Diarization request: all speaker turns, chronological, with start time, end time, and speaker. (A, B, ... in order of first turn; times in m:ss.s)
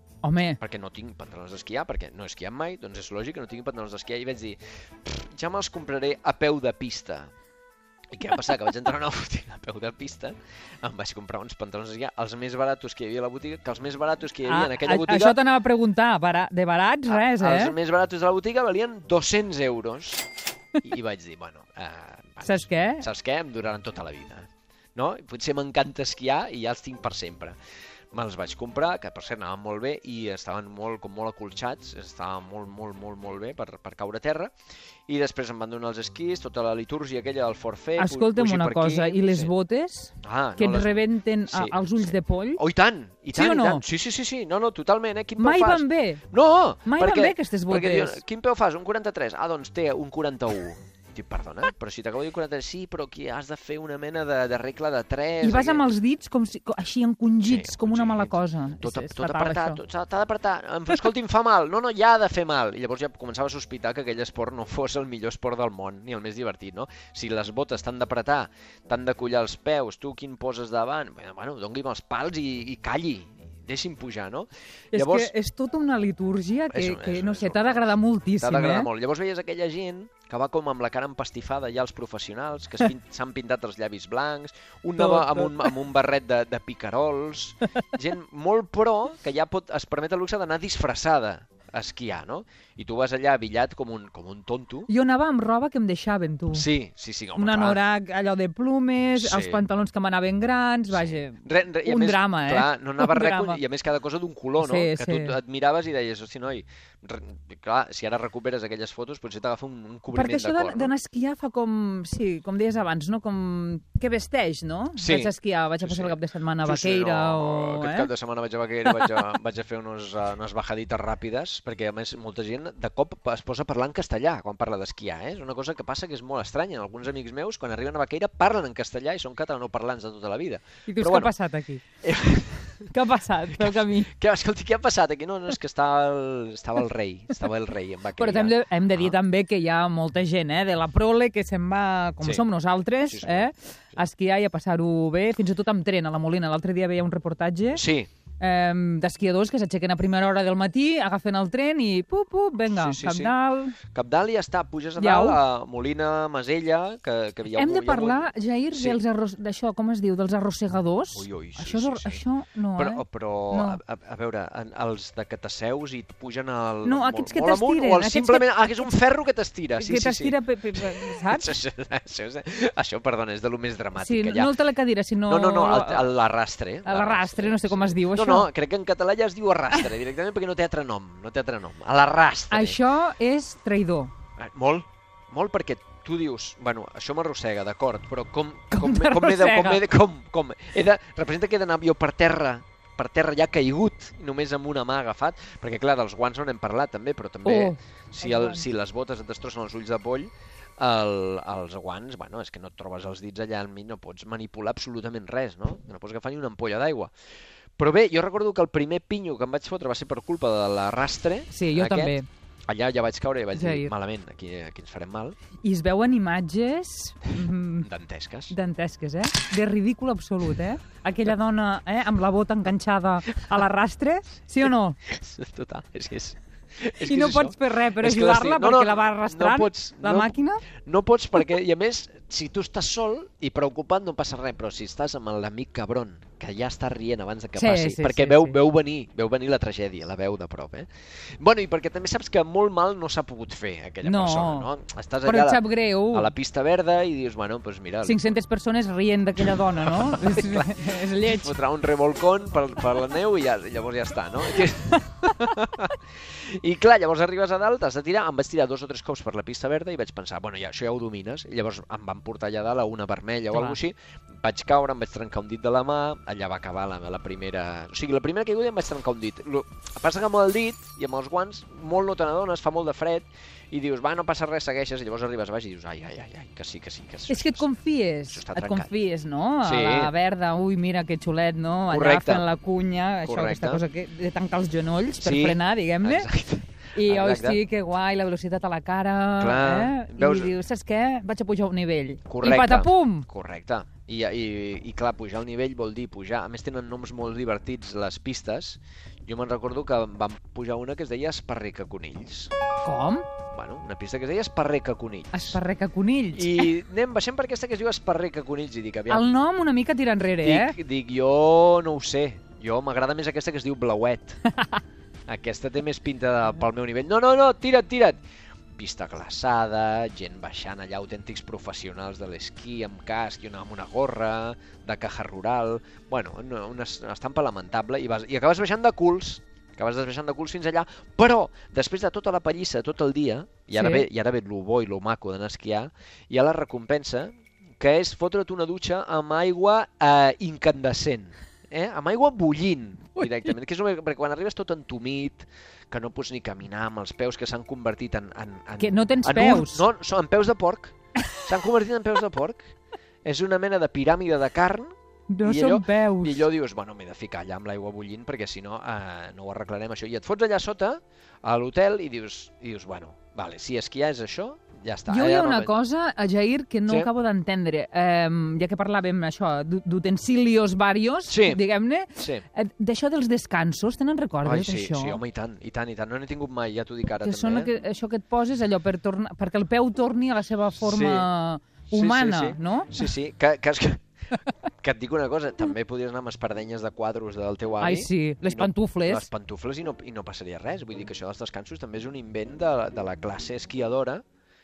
0:00.2-0:00.6 A
0:00.6-0:07.3 B
0:08.1-0:15.4 B
0:14.4-0:17.8 A
0:17.1-0:20.3 B
0:20.8-0:27.6 B
0:22.4-0:23.1 A
0:28.1-0:34.5 B
0:35.1-0:39.5 B
0:38.0-0:42.6 A
0:40.2-0:55.9 B
0:43.3-0:43.8 A
0:45.4-0:46.2 A
0:46.8-0:48.2 A
0:55.4-0:59.8 A
0:57.4-1:15.3 B
1:14.9-1:18.9 A
1:16.7-1:34.9 B
1:25.0-1:25.7 A
1:34.9-1:36.7 A
1:36.5-1:37.8 B
1:37.4-1:43.6 A
1:39.2-1:39.7 B
1:40.9-1:50.9 B
1:44.6-1:45.4 A
1:50.1-1:58.1 A
1:55.0-2:11.3 B
1:58.8-1:59.3 A
2:10.9-2:11.8 A
2:12.0-2:12.9 B
2:12.9-2:14.1 A
2:13.6-2:19.2 B
2:18.2-2:27.8 A
2:23.0-2:24.0 B
2:27.7-2:28.1 B
2:28.4-2:33.8 A
2:32.7-2:33.4 B
2:33.9-2:39.0 B
2:35.0-2:35.4 A
2:37.5-2:43.8 A
2:41.1-2:42.2 B
2:42.8-2:54.6 B
2:46.8-2:48.5 A
2:49.8-2:51.5 A
2:54.0-2:56.1 A
2:55.3-3:02.8 B
2:56.8-2:58.5 A
3:02.5-3:04.1 A
3:04.4-3:27.1 B
3:08.7-3:09.8 A
3:17.4-3:18.6 A
3:27.8-3:32.2 B
3:31.5-3:32.3 A
3:32.7-3:35.4 B
3:33.5-3:33.9 A
3:35.6-3:37.9 A
3:37.8-3:38.6 B
3:38.5-3:45.0 A
3:45.1-3:50.3 B
3:47.0-3:50.6 A
3:50.8-4:00.9 B
3:57.6-3:58.6 A
4:01.4-4:08.3 B
4:04.0-4:04.7 A
4:05.2-4:06.3 A
4:08.0-4:11.5 A
4:09.4-4:37.7 B
4:23.5-4:23.8 A
4:37.3-4:46.3 A
4:38.3-4:38.9 B
4:39.6-4:40.1 B
4:41.9-4:42.5 B
4:43.2-4:43.8 B
4:45.2-4:47.6 B
4:46.9-4:53.3 A
4:49.4-4:50.6 B
4:52.3-5:02.5 B
5:02.8-5:03.3 A
5:03.5-5:05.6 B
5:05.3-5:06.7 A
5:06.3-5:09.3 B
5:09.1-5:10.8 A
5:10.4-5:14.4 B
5:15.3-5:18.2 B
5:18.8-5:54.9 B
5:33.7-5:34.1 A
5:48.8-5:49.8 A
5:55.3-5:56.5 A
5:55.4-6:05.7 B
6:05.1-6:15.2 A
6:11.3-6:11.6 B
6:12.2-6:12.4 B
6:14.4-6:17.7 B
6:17.2-6:23.0 A
6:20.8-6:21.3 B
6:21.9-6:24.0 B
6:24.6-6:34.2 B
6:27.8-6:29.3 A